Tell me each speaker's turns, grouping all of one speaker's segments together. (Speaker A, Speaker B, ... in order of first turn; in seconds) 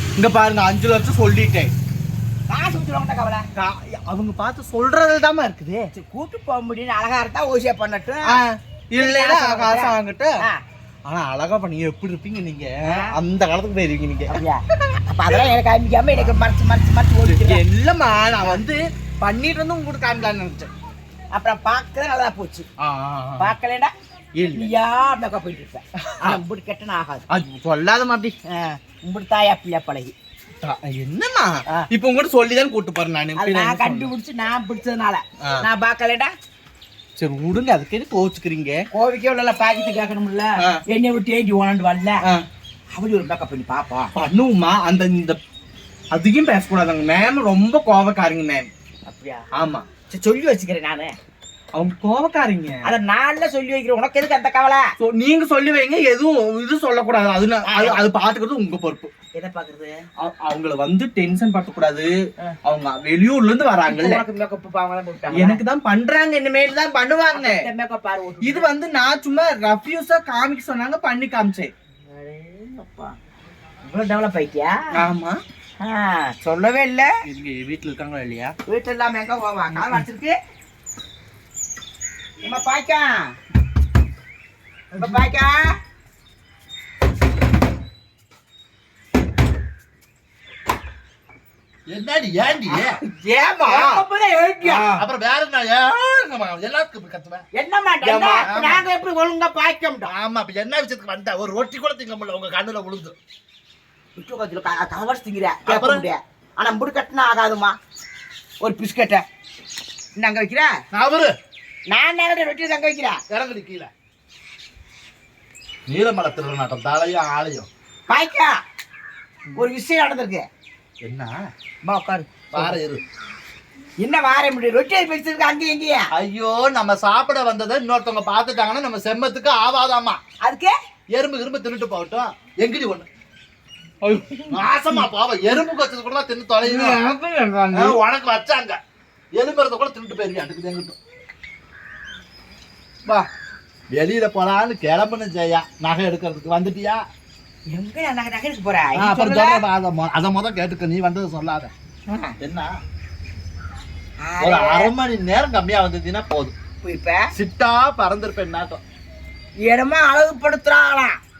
Speaker A: 0.2-1.7, 3.5-5.9, 8.3-10.4, 11.1-14.4, 17.2-20.7, 22.8-23.5, 24.4-24.7, 27.3-28.3, 30.6-34.1, 37.2-38.9, 44.1-45.4, 46.1-48.7, 49.5-49.9, 51.8-52.9, 55.0-59.1, 60.2-64.2, 65.3-67.7, 68.4-71.7, 74.9-75.4, 77.2-78.5, 79.8-80.0, 93.5-94.0, 94.6-95.0, 98.0-98.8, 134.0-134.6, 136.6-138.0
Speaker B: 2.5-3.5, 5.9-8.4, 9.0-10.6, 12.8-13.1, 14.3-17.6, 21.3-22.7, 23.4-23.9, 24.5-27.2, 28.5-30.1, 33.4-36.3, 38.9-42.2, 42.9-44.1, 49.1-49.4, 50.1-51.1, 52.8-54.9, 57.6-58.0, 59.3-60.0, 63.9-65.6, 67.3-68.7, 72.1-73.1, 73.8-75.0, 75.8-77.1, 78.7-80.3, 82.4-83.3, 85.0-85.8, 93.2-94.9, 97.5-100.1, 104.2-107.8, 108.6-109.2, 110.2-110.8, 111.9-113.2, 118.1-118.6, 119.5-120.5, 121.8-122.7, 124.0-126.0, 130.4-130.7, 147.7-149.6, 152.1-152.3, 154.2-154.9, 156.8-157.3, 159.7-161.2
Speaker C: 91.9-93.0, 94.9-97.4, 98.3-98.8, 100.0-103.2, 105.7-106.0, 110.9-111.3, 113.3-113.9, 115.9-117.7, 121.0-121.4, 122.5-123.0, 126.1-130.2, 131.1-133.1, 134.5-137.0, 137.7-138.8, 139.3-140.9, 143.9-147.0, 148.9-151.7, 152.4-152.8, 154.4-156.5, 157.3-158.8